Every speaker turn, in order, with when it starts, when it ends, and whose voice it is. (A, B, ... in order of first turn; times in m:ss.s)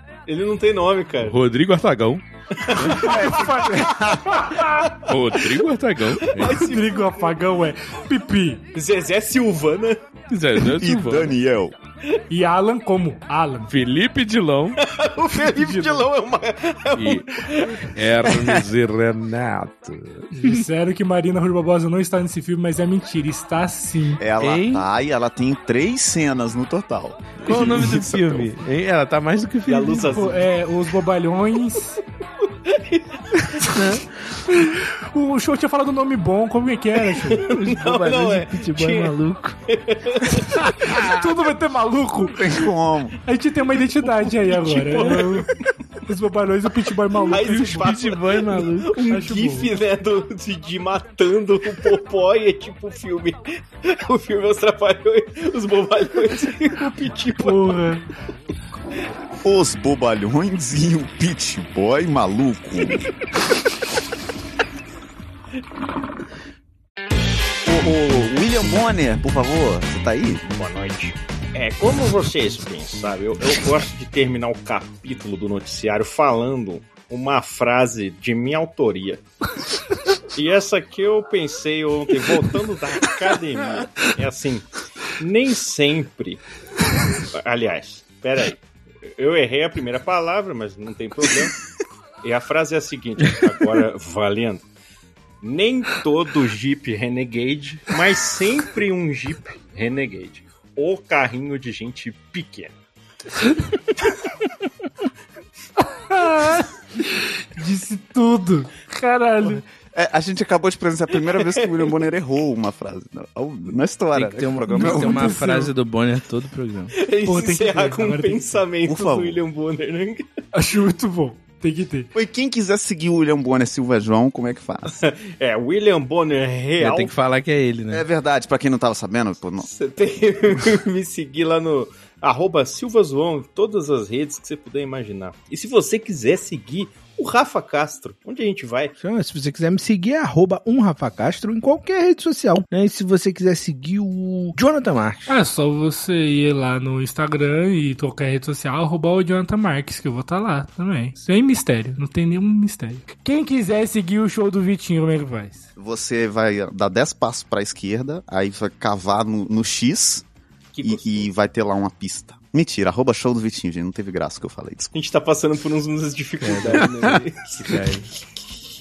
0:00.3-0:01.4 A
0:01.2-0:02.2 B
0:02.5-0:03.5 A
0:02.7-0:04.4 C
0:02.9-0:04.9 D
0:04.5-0:05.4 A
0:04.9-0:06.7 B
0:06.2-0:07.4 A
0:06.6-0:08.6 D
0:08.7-0:10.0 A
0:10.3-0:11.4 B
0:10.6-0:11.7 C
0:12.3-0:13.7 D
0:13.7-0:14.8 B
0:14.8-0:17.9 A
0:15.6-0:16.0 B
0:16.9-0:20.6 B
0:18.2-0:18.6 C
0:20.3-0:24.2 D
0:24.2-0:28.5 C
0:24.4-0:24.9 B
0:27.4-0:30.2 B
0:29.6-0:30.5 A
0:30.1-0:32.0 D
0:32.6-0:33.4 A
0:33.6-0:33.9 D
0:33.6-0:34.8 B
0:34.5-0:37.4 D
0:37.1-0:39.2 A
0:37.4-0:39.6 B
0:39.7-0:41.0 A
0:40.6-0:42.5 D
0:42.3-0:43.2 C
0:43.2-0:45.5 D
0:44.1-0:45.5 B
0:44.7-0:45.5 A
0:46.0-0:47.9 D
0:47.2-0:57.9 A
0:47.2-0:49.1 B
0:49.1-0:49.7 D
0:57.4-0:58.0 D
0:59.4-1:03.0 C
1:07.6-1:10.4 C
1:10.5-1:19.2 A
1:20.3-1:26.4 A
1:27.2-1:31.6 A
1:32.2-1:34.6 A
1:35.4-1:42.7 A
1:46.0-1:49.6 D
1:49.9-1:55.4 C
1:51.2-1:52.0 A
1:54.1-1:56.9 B
1:54.7-1:55.7 D
1:57.0-2:00.2 A
1:57.2-1:58.6 D
1:58.8-1:59.4 C
2:00.5-2:02.1 D
2:02.1-2:05.0 C
2:04.8-2:07.1 A
2:06.8-2:08.0 B
2:07.9-2:09.7 C
2:09.6-2:18.9 A
2:19.0-2:25.4 B
2:25.3-2:35.6 D
2:35.8-2:40.2 C
2:40.7-2:41.2 A
2:40.8-2:44.9 C
2:44.9-2:47.7 A
2:46.4-2:48.1 B